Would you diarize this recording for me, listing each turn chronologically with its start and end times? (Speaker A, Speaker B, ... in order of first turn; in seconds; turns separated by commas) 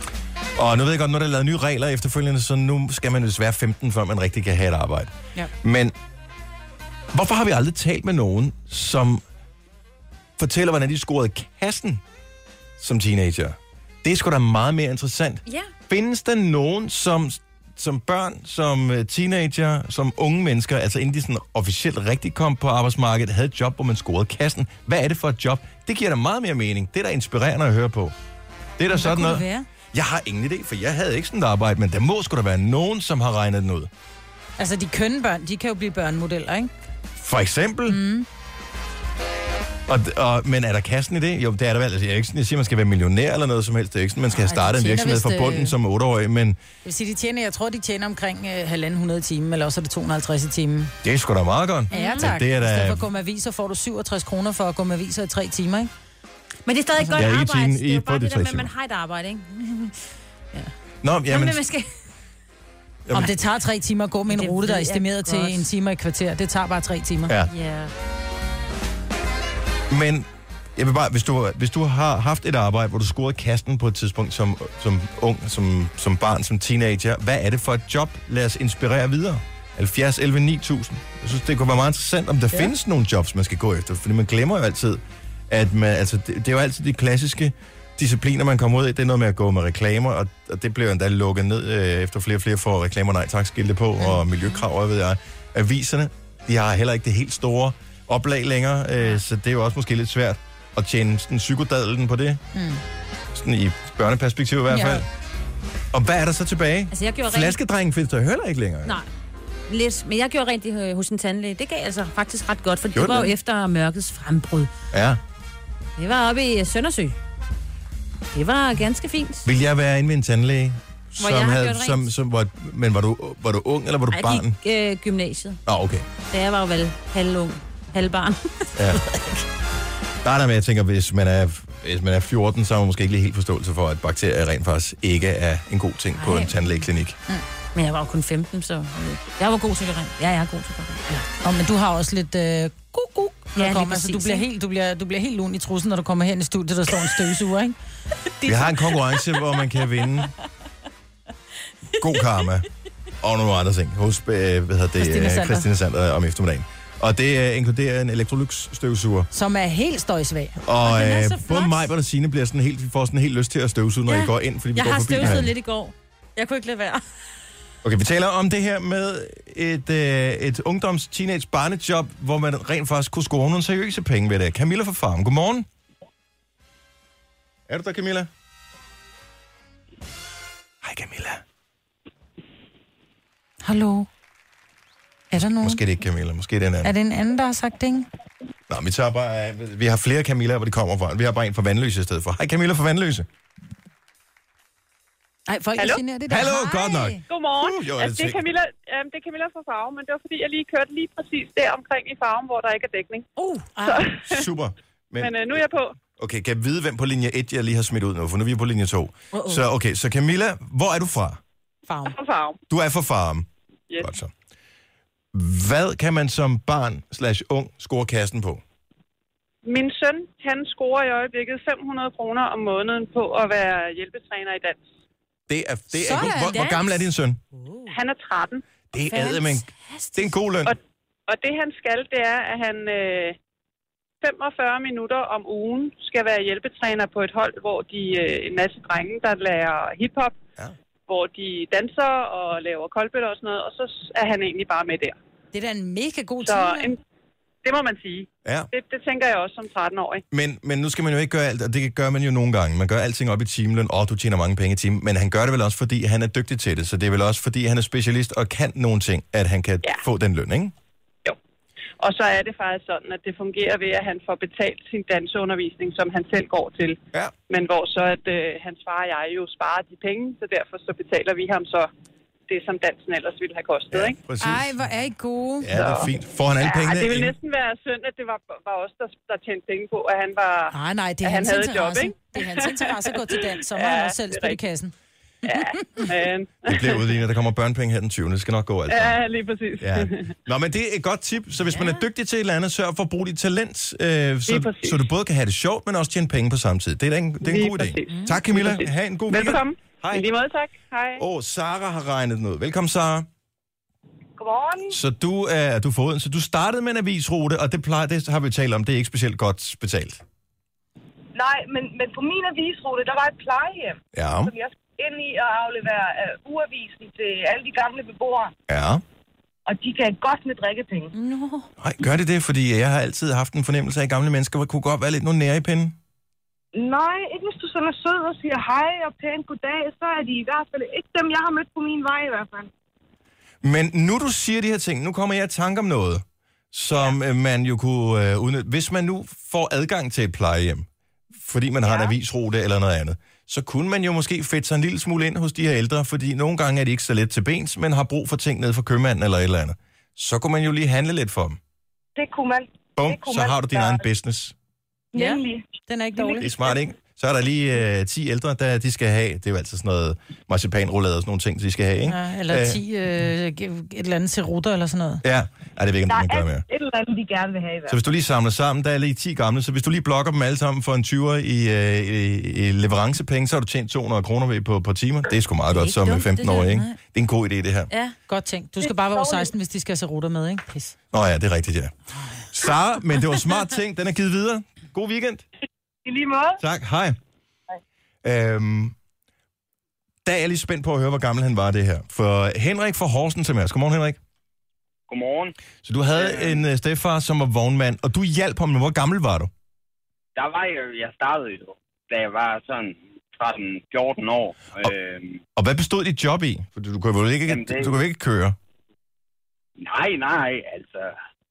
Speaker A: 0.5-5.9, Speaker A: 7.1-9.2, Speaker A: 10.4-12.0, Speaker A: 12.8-28.1, Speaker B: 15.4-15.7, Speaker A: 28.8-33.9, Speaker C: 28.9-29.7, Speaker C: 34.6-36.7, Speaker A: 37.1-38.0, Speaker C: 37.9-38.2, Speaker A: 39.9-46.6, Speaker C: 44.3-45.7, Speaker C: 46.8-50.9, Speaker A: 51.0-53.1, Speaker B: 51.9-52.3, Speaker C: 51.9-55.9, Speaker B: 56.6-59.9, Speaker A: 57.1-58.7, Speaker A: 61.0-61.6, Speaker B: 61.3-61.9, Speaker A: 63.1-63.3, Speaker C: 63.1-67.3, Speaker B: 64.3-65.7, Speaker B: 67.5-67.9, Speaker A: 69.9-102.4, Speaker C: 102.5-102.8, Speaker A: 103.3-105.1, Speaker C: 104.7-105.0, Speaker A: 105.9-109.0, Speaker B: 106.9-107.5, Speaker B: 109.7-114.7, Speaker A: 112.9-113.3, Speaker A: 114.9-115.2, Speaker B: 116.0-117.2, Speaker B: 118.3-119.5, Speaker A: 119.4-124.5, Speaker B: 121.2-122.1, Speaker B: 124.1-125.6, Speaker A: 125.7-126.1, Speaker B: 126.3-129.4, Speaker A: 128.8-129.0, Speaker A: 130.2-137.2, Speaker B: 136.2-136.7, Speaker B: 137.7-141.2, Speaker C: 141.4-147.7, Speaker B: 143.6-144.4, Speaker B: 148.4-149.0, Speaker A: 148.4-150.3, Speaker A: 152.0-152.7, Speaker A: 153.2-159.3, Speaker C: 155.0-155.7, Speaker C: 159.3-160.6, Speaker A: 160.6-165.5, Speaker B: 160.8-161.9, Speaker B: 164.1-167.0, Speaker A: 167.8-175.7, Speaker A: 177.7-178.3, Speaker A: 180.8-181.4, Speaker C: 183.6-184.1, Speaker C: 185.3-185.8, Speaker A: 185.6-186.9, Speaker C: 186.8-188.1, Speaker A: 188.7-193.3, Speaker C: 195.5-197.2, Speaker A: 196.3-198.4, Speaker D: 197.3-203.3, Speaker C: 203.6-204.0, Speaker D: 203.8-204.5, Speaker A: 204.2-205.6, Speaker D: 205.2-205.9, Speaker A: 206.2-211.4, Speaker C: 211.9-212.2, Speaker D: 212.1-212.6, Speaker A: 212.7-213.5, Speaker A: 214.0-214.3, Speaker A: 215.3-218.6, Speaker D: 219.6-224.8, Speaker A: 225.5-227.4, Speaker C: 225.9-226.7, Speaker B: 226.3-226.8, Speaker D: 227.9-228.6, Speaker A: 228.9-230.7, Speaker B: 229.1-230.2, Speaker D: 230.6-233.4, Speaker D: 234.2-240.3, Speaker D: 241.1-245.2, Speaker C: 245.5-246.9, Speaker D: 246.4-247.0, Speaker D: 247.6-250.2, Speaker A: 248.4-248.7, Speaker A: 250.3-260.7, Speaker D: 262.0-271.9, Speaker D: 272.5-274.2, Speaker A: 273.9-274.7, Speaker C: 274.4-275.7, Speaker A: 275.6-277.4, Speaker D: 275.7-276.1, Speaker D: 276.6-284.6, Speaker C: 280.7-284.9, Speaker D: 285.5-287.0, Speaker C: 285.5-286.0, Speaker A: 286.6-289.2, Speaker D: 288.9-290.3, Speaker A: 289.8-300.3, Speaker B: 291.7-292.0, Speaker D: 294.5-295.0, Speaker D: 297.4-301.2, Speaker A: 301.2-303.3, Speaker E: 304.4-305.0, Speaker A: 304.9-310.2, Speaker E: 311.3-318.5, Speaker A: 314.1-314.5, Speaker A: 318.7-319.0, Speaker E: 319.7-321.1, Speaker B: 321.1-321.7, Speaker A: 321.8-326.0, Speaker E: 326.7-332.7, Speaker A: 333.6-351.6, Speaker E: 341.8-342.1, Speaker E: 352.1-354.1, Speaker A: 353.0-354.5, Speaker E: 355.1-356.6, Speaker C: 355.1-356.5, Speaker A: 356.4-362.8, Speaker C: 362.0-365.2, Speaker A: 365.2-366.6, Speaker E: 366.1-368.0, Speaker A: 367.9-377.9, Speaker B: 375.7-376.8, Speaker C: 378.3-380.9, Speaker E: 379.0-379.5, Speaker A: 381.1-381.9, Speaker A: 382.5-385.4, Speaker E: 386.1-386.6, Speaker A: 386.6-387.2, Speaker A: 388.2-388.9, Speaker A: 390.2-394.2, Speaker F: 395.1-395.5, Speaker A: 395.8-399.5, Speaker F: 396.2-396.5, Speaker F: 400.4-405.4, Speaker A: 405.6-408.6, Speaker F: 407.5-407.8, Speaker F: 409.9-411.1